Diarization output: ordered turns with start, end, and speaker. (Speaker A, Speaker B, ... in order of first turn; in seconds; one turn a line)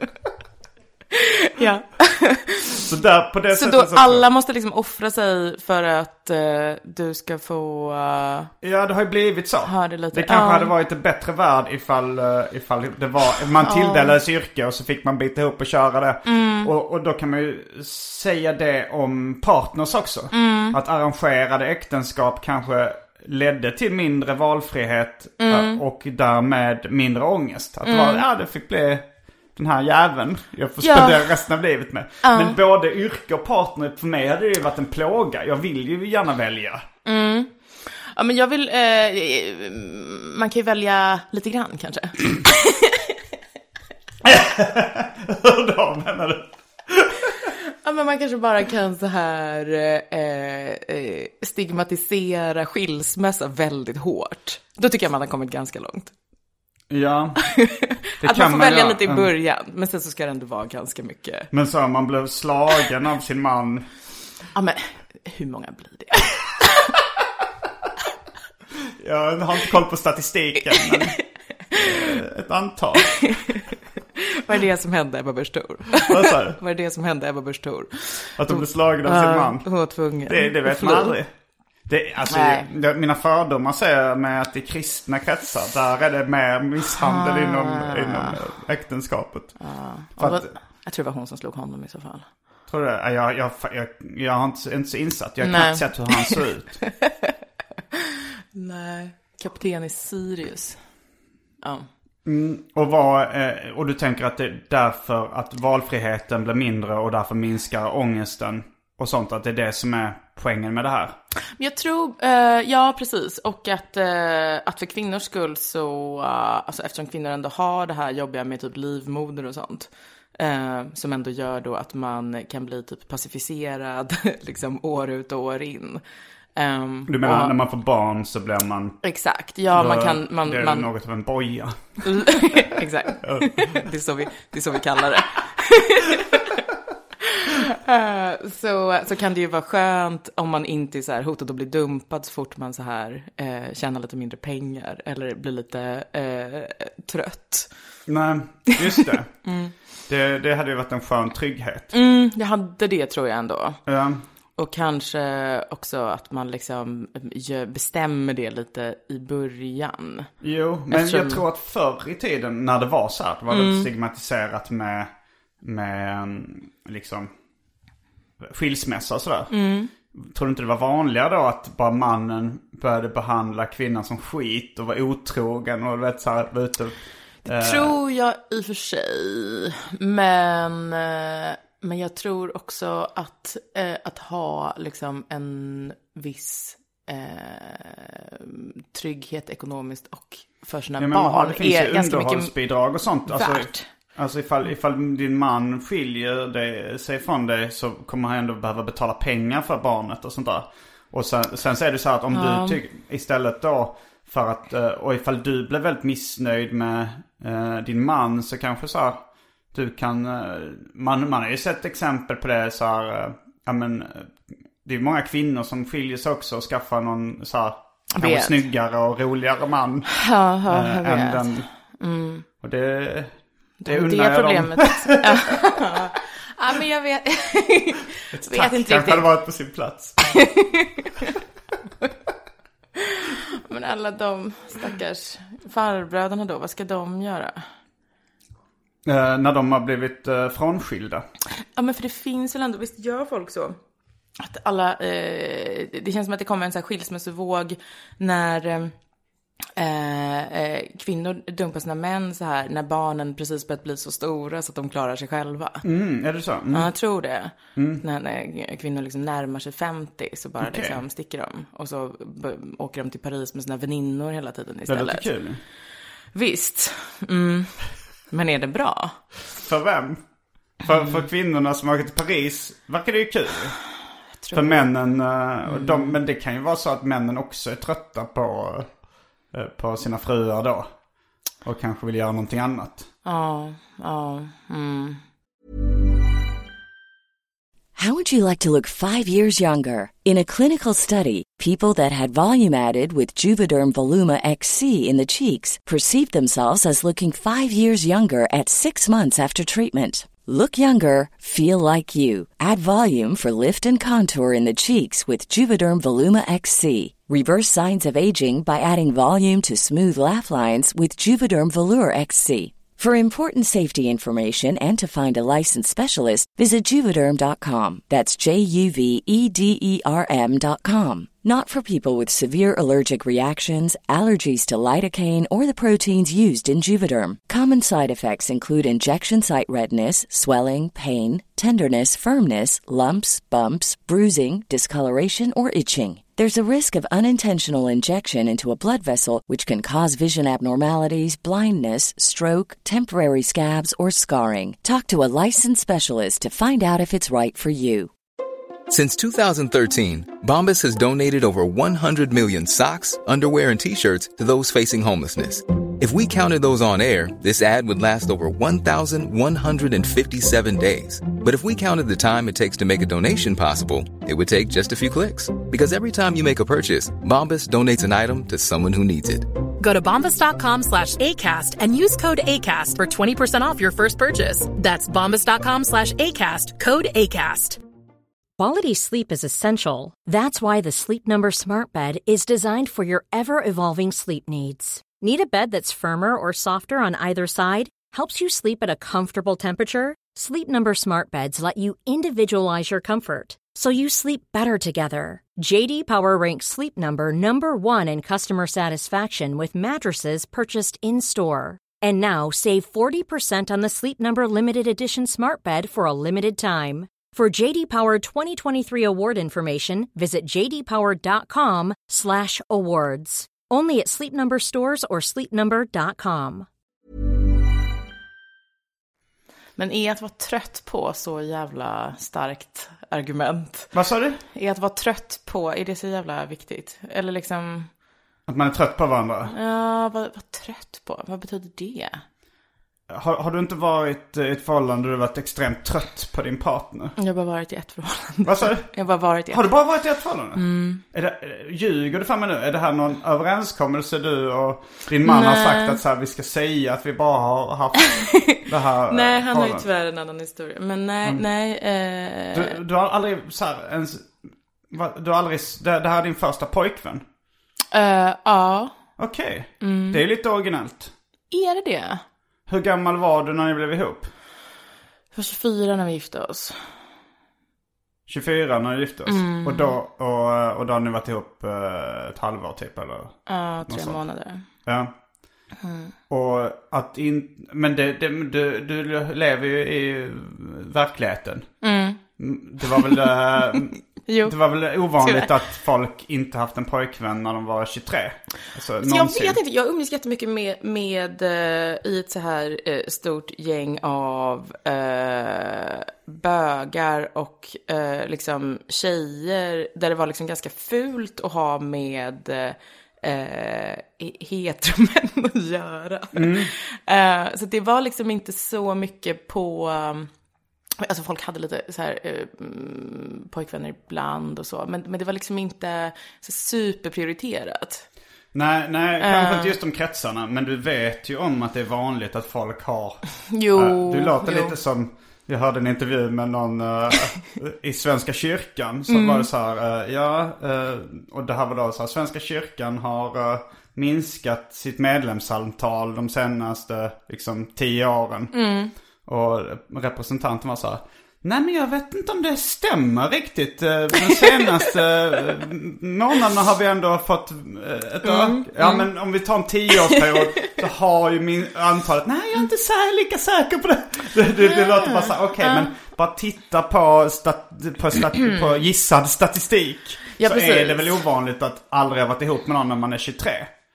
Speaker A: 1.1-2.8
Speaker B: 2.8-4.3
Speaker A: 3.5-8.5
Speaker B: 8.6-36.9
Speaker A: 9.6-10.7
Speaker A: 13.6-14.2
Speaker A: 16.3-16.7
Speaker A: 20.3-20.8
Speaker A: 25.4-25.8
Speaker A: 27.8-28.2
Speaker A: 30.8-31.3
Speaker A: 32.2-32.6
Speaker A: 37.0-43.1
Speaker B: 44.2-47.5
Speaker A: 47.8-56.1
Speaker B: 56.9-57.4
Speaker A: 57.5-61.5
Speaker B: 58.2-59.3
Speaker B: 61.5-63.9
Speaker A: 64.5-66.9
Speaker B: 69.0-71.2
Speaker A: 70.7-71.2
Speaker A: 71.7-72.2
Speaker B: 71.7-73.6
Speaker A: 73.2-73.6
Speaker A: 74.2-81.2
Speaker B: 76.0-76.6
Speaker B: 78.4-81.3
Speaker B: 81.9-89.6
Speaker A: 82.3-82.7
Speaker A: 87.0-88.4
Speaker A: 89.6-92.3
Speaker B: 90.2-90.5
Speaker B: 92.7-96.8
Speaker A: 95.4-96.4
Speaker A: 97.0-97.3
Speaker A: 98.5-100.8
Speaker A: 101.6-101.9
Speaker B: 102.2-111.2
Speaker A: 111.6-126.0
Speaker A: 126.6-127.6
Speaker B: 127.1-129.0
Speaker A: 129.0-130.9
Speaker B: 129.7-132.4
Speaker A: 132.0-136.6
Speaker B: 133.2-133.5
Speaker A: 137.2-147.7
Speaker B: 148.1-149.4
Speaker A: 148.8-149.7
Speaker B: 150.1-151.9
Speaker A: 151.9-153.8
Speaker B: 153.9-154.2
Speaker A: 154.6-160.3
Speaker B: 160.4-167.3
Speaker A: 160.9-161.4
Speaker A: 163.5-163.9
Speaker B: 168.4-169.5
Speaker A: 169.5-169.9
Speaker B: 170.1-178.0
Speaker A: 177.5-192.5
Speaker B: 191.0-220.1
Speaker A: 193.3-193.9
Speaker A: 202.3-202.8
Speaker A: 218.1-218.6
Speaker A: 220.1-222.5
Speaker B: 220.7-221.7
Speaker B: 222.6-225.2
Speaker A: 223.8-229.3
Speaker B: 228.3-230.2
Speaker A: 230.3-231.3
Speaker A: 233.2-237.7
Speaker B: 239.1-241.2
Speaker A: 241.8-243.8
Speaker A: 244.4-248.9
Speaker A: 249.8-255.8
Speaker B: 255.8-256.9
Speaker A: 256.7-265.3
Speaker B: 257.8-258.0
Speaker B: 260.6-261.0
Speaker B: 264.9-265.6
Speaker A: 266.3-269.2
Speaker B: 269.5-270.2
Speaker B: 270.8-273.8
Speaker A: 274.4-274.9
Speaker B: 274.5-278.9
Speaker A: 275.7-276.1
Speaker B: 279.5-281.0
Speaker B: 281.6-283.1
Speaker A: 283.2-285.2
Speaker C: 288.0-348.1
Speaker D: 348.9-369.5
Speaker E: 369.8-377.8
Speaker F: 378.6-416.7
Speaker A: 419.8-423.9
Speaker B: 423.9-424.4
Speaker A: 424.5-427.9
Speaker B: 428.5-429.5
Speaker A: 429.5-432.2
Speaker B: 433.1-437.2
Speaker A: 437.2-439.7
Speaker B: 438.4-449.9
Speaker A: 440.6-441.0
Speaker A: 445.2-446.0
Speaker A: 448.5-452.8
Speaker B: 452.5-457.2
Speaker A: 457.9-458.9
Speaker B: 459.2-461.1
Speaker A: 459.8-460.2
Speaker A: 461.5-462.2
Speaker B: 462.7-464.3
Speaker A: 465.3-466.9
Speaker B: 468.3-474.2
Speaker A: 469.3-469.9
Speaker A: 473.5-474.6
Speaker B: 474.9-475.1
Speaker A: 475.8-476.1
Speaker B: 476.3-481.7
Speaker A: 481.8-482.2
Speaker B: 482.4-489.6
Speaker A: 482.9-483.2
Speaker A: 484.3-484.6
Speaker A: 485.2-485.5
Speaker A: 489.0-510.3
Speaker B: 506.3-506.7
Speaker A: 511.0-518.1
Speaker B: 518.5-538.5
Speaker A: 519.2-519.8
Speaker A: 523.5-524.8
Speaker A: 529.1-529.5
Speaker A: 538.5-538.9
Speaker B: 539.2-563.7
Speaker A: 548.2-549.1
Speaker A: 550.1-550.8
Speaker A: 554.6-555.9
Speaker A: 558.4-558.6
Speaker A: 560.4-561.2